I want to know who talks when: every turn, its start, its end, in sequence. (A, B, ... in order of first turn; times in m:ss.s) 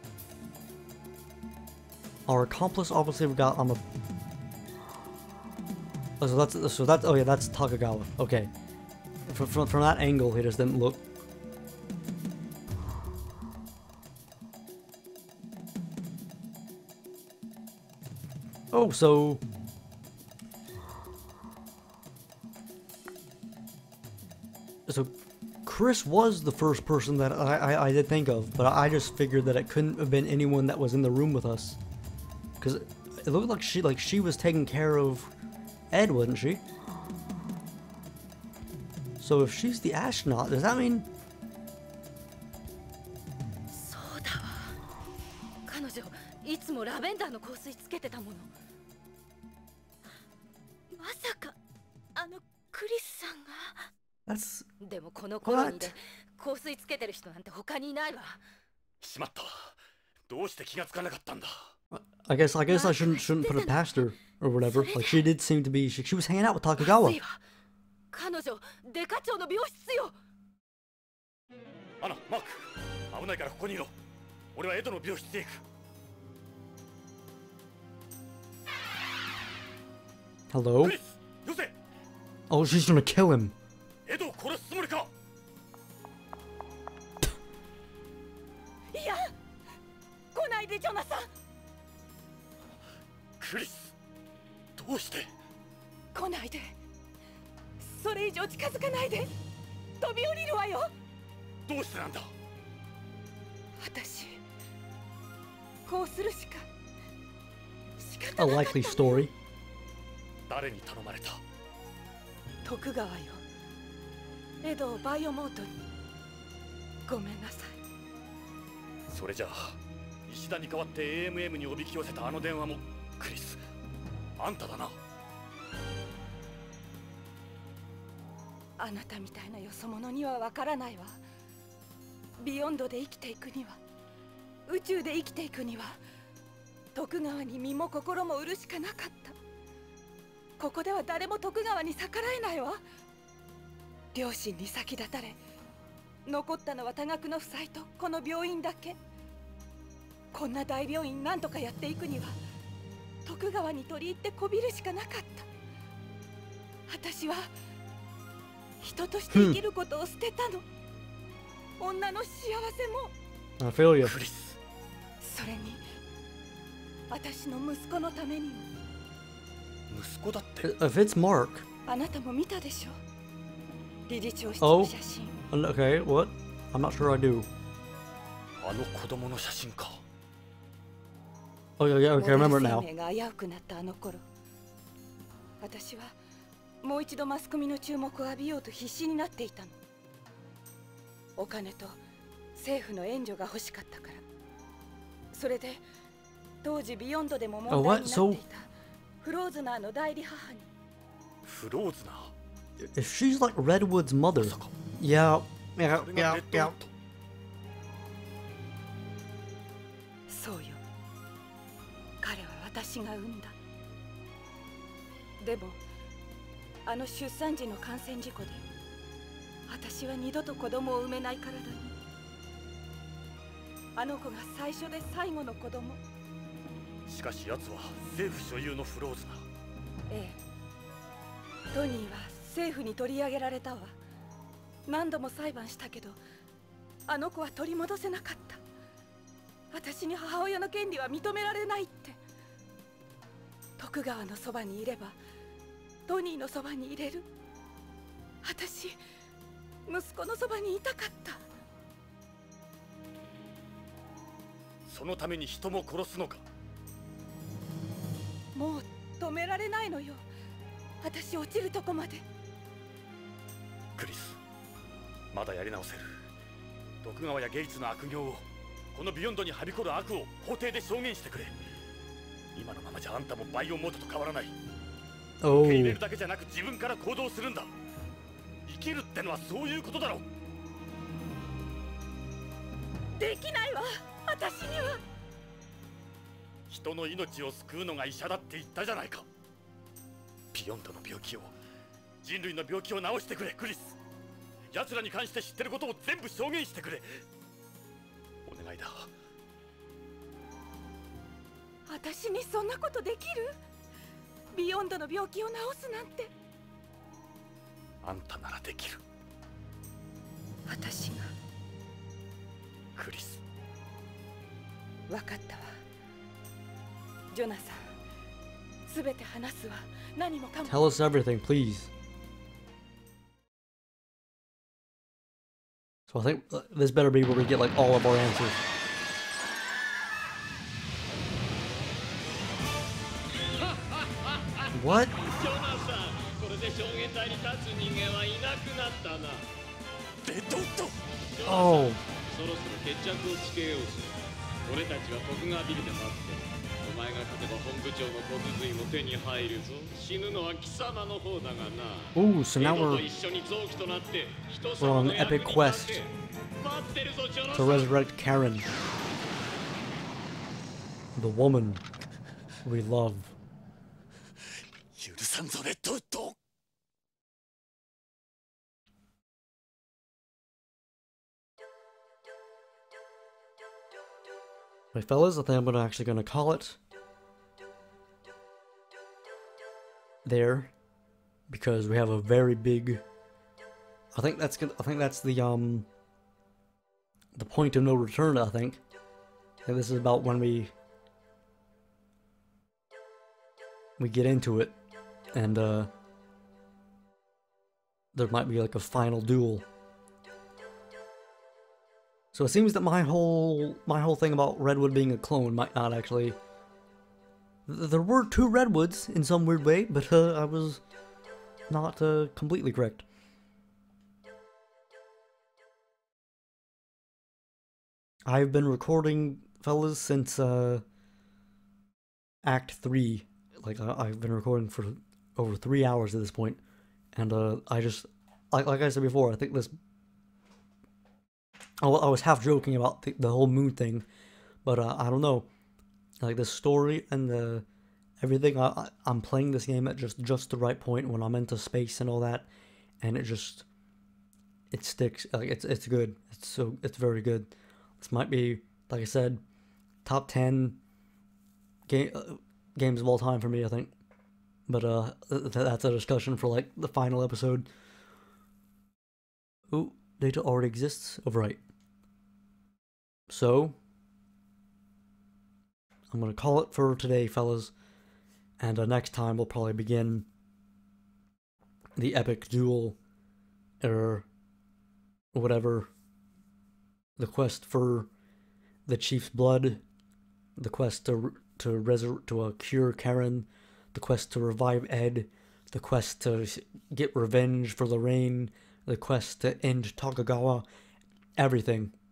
0:02.3-0:03.8 A
0:06.2-0:08.5 A
0:09.3-0:11.0 A
0:18.7-0:19.4 A
0:24.9-0:25.1 A
0:25.6-0:31.8 A
0:32.6-0:35.3 A
0:35.9-0:36.6 A
0:39.2-0:41.1 A
0:43.7-0:44.8 B
0:45.6-0:48.5 B
0:50.9-0:51.5 B
0:52.2-0:53.8 B
0:54.3-0:54.7 A
0:54.8-0:58.4 B
0:55.4-0:55.9 A
0:59.0-1:01.7 C
1:01.9-1:07.2 A
1:02.7-1:03.9 B
1:04.6-1:05.2 B
1:06.8-1:07.4 B
1:08.1-1:10.1 B
1:12.0-1:13.9 C
1:14.5-1:15.6 C
1:20.5-1:21.0 A
1:20.8-1:21.7 C
1:22.5-1:23.5 A
1:24.0-1:25.1 C
1:28.9-1:29.3 D
1:30.3-1:31.3 D
1:33.4-1:33.9 C
1:34.8-1:35.3 C
1:36.1-1:36.8 D
1:37.8-1:39.3 D
1:40.0-1:40.9 D
1:41.7-1:42.3 C
1:43.8-1:44.4 D
1:45.8-1:46.7 D
1:48.0-1:49.2 D
1:48.3-1:49.3 A
1:50.5-1:51.4 C
1:52.6-1:53.4 D
1:54.6-1:55.7 D
1:57.0-1:57.8 D
1:59.1-2:03.6 C
2:04.4-2:05.0 C
2:08.8-2:11.2 D
2:12.4-2:13.8 D
2:14.7-2:16.0 D
2:16.9-2:19.4 D
2:20.6-2:22.8 D
2:24.1-2:25.4 D
2:26.2-2:29.0 D
2:30.3-2:32.4 D
2:33.2-2:35.5 D
2:36.9-2:37.5 D
2:38.8-2:40.6 D
2:39.3-2:39.6 A
2:41.8-2:43.1 D
2:43.6-2:44.1 A
2:44.0-2:44.6 C
2:45.2-2:45.8 D
2:47.1-2:48.7 D
2:49.9-2:50.7 C
2:50.6-2:51.6 A
2:51.8-2:53.0 D
2:54.1-2:55.4 D
2:54.6-2:54.9 A
2:55.5-2:57.5 A
2:58.6-3:00.0 C
3:01.8-3:02.9 A
3:02.1-3:04.2 D
3:05.6-3:06.1 D
3:06.8-3:09.8 D
3:11.4-3:12.0 D
3:12.5-3:14.2 D
3:15.3-3:15.8 D
3:16.6-3:18.7 D
3:17.7-3:18.4 A
3:19.2-3:20.7 D
3:21.4-3:22.3 C
3:22.9-3:26.7 A
3:24.4-3:24.7 C
3:25.9-3:26.9 C
3:30.3-3:30.8 D
3:32.2-3:33.5 D
3:35.4-3:35.8 D
3:36.8-3:38.6 D
3:39.7-3:42.0 D
3:44.0-3:46.0 D
3:47.1-3:49.5 C
3:50.1-3:50.4 D
3:51.7-3:53.9 D
3:54.8-3:56.2 D
3:57.1-3:58.6 D
3:59.7-4:02.2 D
4:03.8-4:05.2 D
4:06.1-4:07.3 D
4:08.4-4:09.0 D
4:09.9-4:11.4 D
4:14.8-4:16.4 C
4:18.5-4:20.2 D
4:21.0-4:22.2 D
4:24.0-4:24.4 C
4:25.3-4:26.1 C
4:27.0-4:31.6 C
4:32.5-4:34.6 C
4:35.4-4:36.0 A
4:35.4-4:37.8 C
4:38.6-4:40.2 C
4:43.1-4:45.0 D
4:46.7-4:49.3 C
4:50.5-4:51.6 C
4:52.2-4:54.0 C
4:54.7-4:57.2 C
4:58.4-4:59.1 C
5:01.8-5:03.5 D
5:04.5-5:06.3 D
5:08.0-5:09.0 C
5:10.7-5:11.3 D
5:12.9-5:13.4 C
5:15.1-5:15.6 D
5:17.3-5:17.9 D
5:18.8-5:20.9 D
5:20.6-5:21.9 A
5:26.1-5:28.6 A
5:34.7-5:35.2 A
5:35.2-5:39.5 E
5:40.3-5:40.9 C
5:41.4-5:44.1 E
5:41.4-5:42.0 A
5:44.6-5:57.9 E
5:52.1-5:53.1 A
5:54.8-5:56.0 A
5:57.5-5:58.7 A
6:01.2-6:01.8 A
6:02.6-6:03.4 A
6:04.9-6:06.4 C
6:14.9-6:16.8 A
6:20.2-6:20.7 A
6:21.5-6:23.0 A
6:24.1-6:25.9 A
6:27.3-6:28.8 A
6:29.6-6:30.7 A
6:34.0-6:34.7 A
6:35.3-6:35.9 A
6:38.1-6:39.6 A
6:42.3-6:46.4 A
6:47.7-6:50.8 A
6:51.7-6:53.0 A
6:58.2-7:00.8 A
7:02.4-7:06.6 A
7:07.1-7:09.8 A
7:11.8-7:14.0 A
7:14.6-7:15.5 A
7:16.2-7:17.6 A
7:18.2-7:22.5 A
7:23.0-7:23.6 A
7:24.7-7:29.4 A
7:30.0-7:30.8 A
7:31.9-7:33.9 A
7:34.7-7:37.7 A
7:39.7-7:41.6 A
7:43.3-7:43.8 A
7:46.1-7:47.7 A
7:48.6-7:50.3 A
7:52.0-7:53.0 A
7:53.8-7:54.3 A
7:55.3-7:55.9 A
7:57.2-7:58.1 A
7:58.9-7:59.8 A
8:00.6-8:10.6 A
8:11.4-8:11.9 A